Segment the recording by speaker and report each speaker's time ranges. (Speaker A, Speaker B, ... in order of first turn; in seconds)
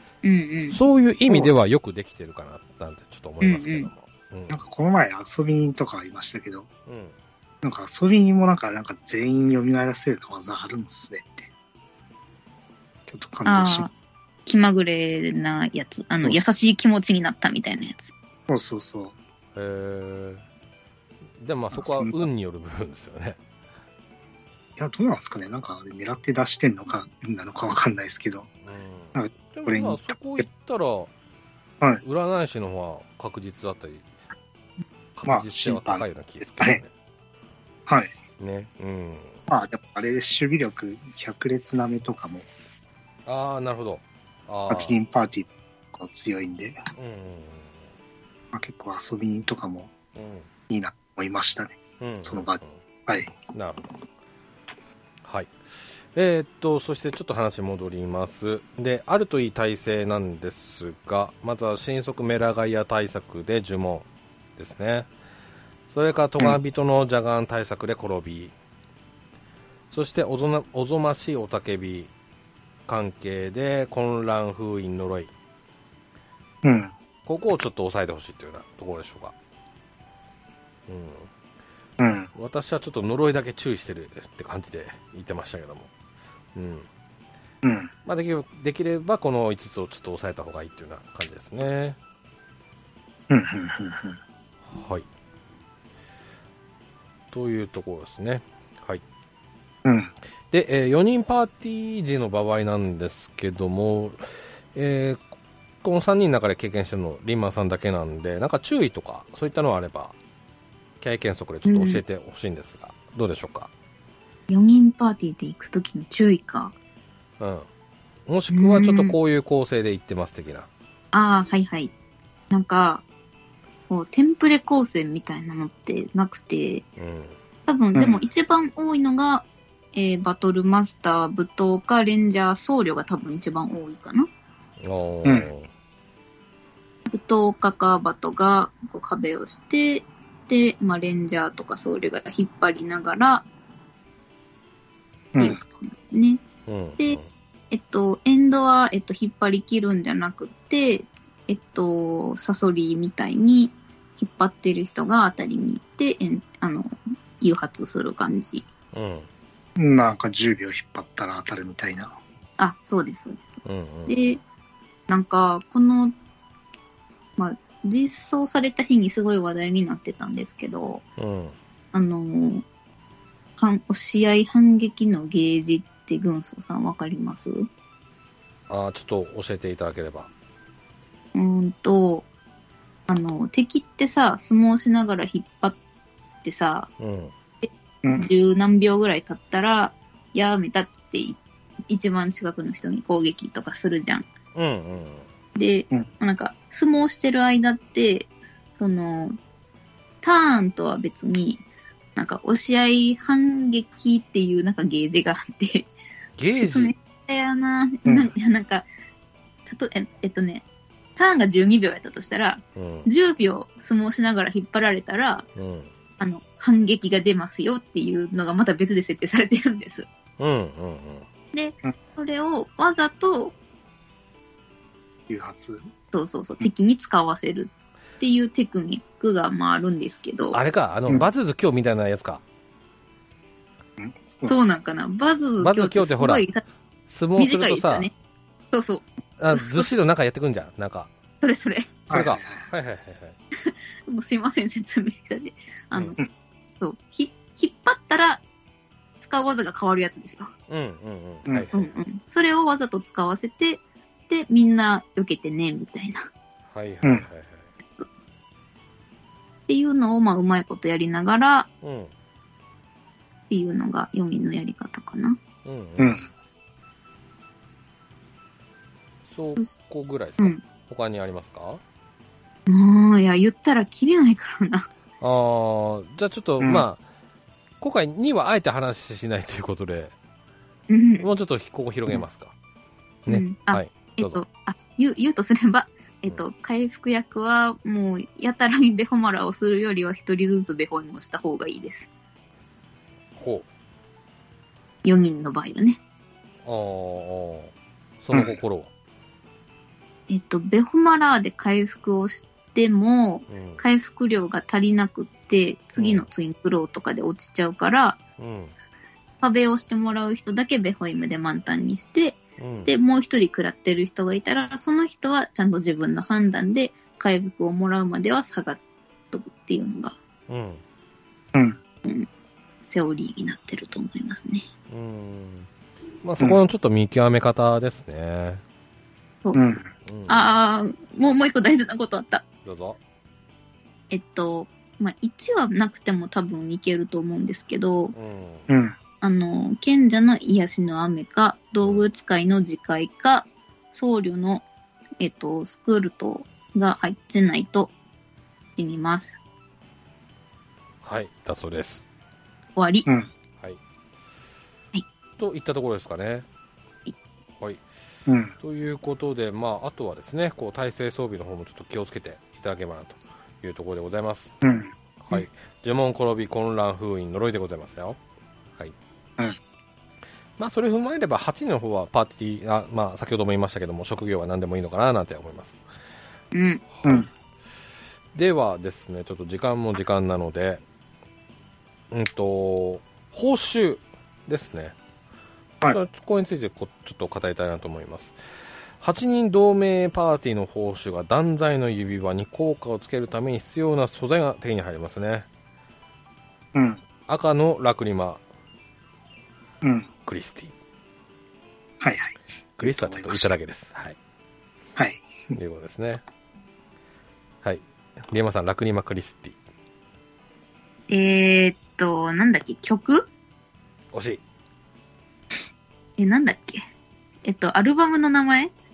Speaker A: 0.2-0.8, 3.4-3.9, 13.4-13.9, 14.4-18.1, 111.6-112.0, 114.5-116.7, 118.5-119.2, 121.1-121.9, 122.5-123.0, 123.9-126.8, 127.7-134.3, 137.1-143.4, 145.4-146.4, 147.7-158.7, 162.6-164.4, 165.1-166.1, 167.4-171.0, 171.9-172.6, 173.6-177.7, 181.3-182.3, 183.1-185.8, 186.4-186.9, 187.6-194.3, 195.5-199.3, 200.2-201.6, 202.2-205.9, 206.6-208.8, 209.7-210.6, 211.2-215.4, 216.2-220.1, 221.5-223.6, 226.1-230.6, 234.4-236.6, 237.4-238.1, 238.7-239.9, 241.4-241.9, 243.6-246.2, 246.8-248.4, 249.2-250.5, 251.7-256.3, 259.7-261.7, 263.5-265.4, 272.7-274.9, 280.9-281.3, 283.3-292.1, 295.0-296.0, 300.3-308.2, 309.4-318.8, 319.3-320.2, 322.9-324.7, 329.4-332.4, 334.1-338.1, 339.2-344.6, 345.2-347.9, 348.8-349.4, 352.8-353.1, 376.5-376.8, 411.1-413.3, 416.2-416.8, 417.4-418.7
Speaker B: 0.7-4.6, 6.9-7.1, 19.5-20.4, 21.4-23.4, 28.6-31.1, 32.0-34.1, 35.1-36.9, 38.4-39.4, 43.2-45.0, 47.0-47.8, 50.1-50.5, 52.0-52.8, 53.5-53.9, 55.2-55.5, 56.1-64.0, 64.6-65.1, 65.9-68.5, 69.9-72.1, 72.9-75.3, 77.2-79.3, 80.9-81.3, 82.3-85.9, 86.5-86.9, 88.0-92.0, 94.7-95.0, 97.3-99.0, 100.5-104.2, 104.7-110.1, 111.0-113.7, 117.4-117.7, 118.3-120.7, 127.0-127.4, 134.8-135.7, 146.7-147.3, 158.9-159.3, 163.6-164.2, 171.2-171.6, 178.7-180.3, 187.0-187.3, 194.5-195.3, 206.4-206.9, 212.8-213.1, 215.6-215.9, 220.4-221.2, 230.5-232.4, 235.6-236.4, 237.1-238.1, 239.4-241.1, 242.1-243.4, 250.7-252.0, 256.7-257.7, 261.8-262.1, 265.6-266.2, 269.3-271.8, 275.2-277.0, 277.8-280.1, 281.2-282.5, 283.2-284.4, 293.4-293.6, 296.6-298.9, 303.5-303.8, 306.0-306.3, 308.4-308.7, 312.6-312.9, 320.5-320.8, 324.9-325.7, 326.2-328.6, 330.0-330.5, 332.6-333.0, 338.1-338.7, 351.0-352.1, 355.4-356.4, 358.6-364.5, 365.2-368.2, 370.6-375.8, 377.0-377.3, 378.3-380.8, 382.1-384.9, 385.8-388.4, 389.0-395.5, 397.3-398.4, 400.2-400.7, 402.8-404.2, 405.5-406.2, 407.6-409.6, 414.1-414.4
Speaker C: 1.3-1.6, 4.5-6.7, 7.6-11.5, 13.1-13.9, 18.5-19.1, 21.7-22.3, 24.8-28.5, 29.1-30.4, 35.2-36.8, 39.5-42.5, 44.7-46.8, 48.5-49.9, 50.7-53.3, 76.6-76.9, 82.0-82.3, 87.6-87.9, 93.3-94.2, 99.8-100.1, 159.8-162.2, 188.0-188.3, 208.1-208.3, 225.3-225.8, 234.0-234.6, 242.1-242.7, 266.0-266.2, 276.6-276.8, 321.5-321.8, 329.5-329.8, 338.7-339.0, 358.3-358.5, 364.6-364.9, 396.7-397.0, 399.8-400.1, 402.0-403.5, 404.9-405.2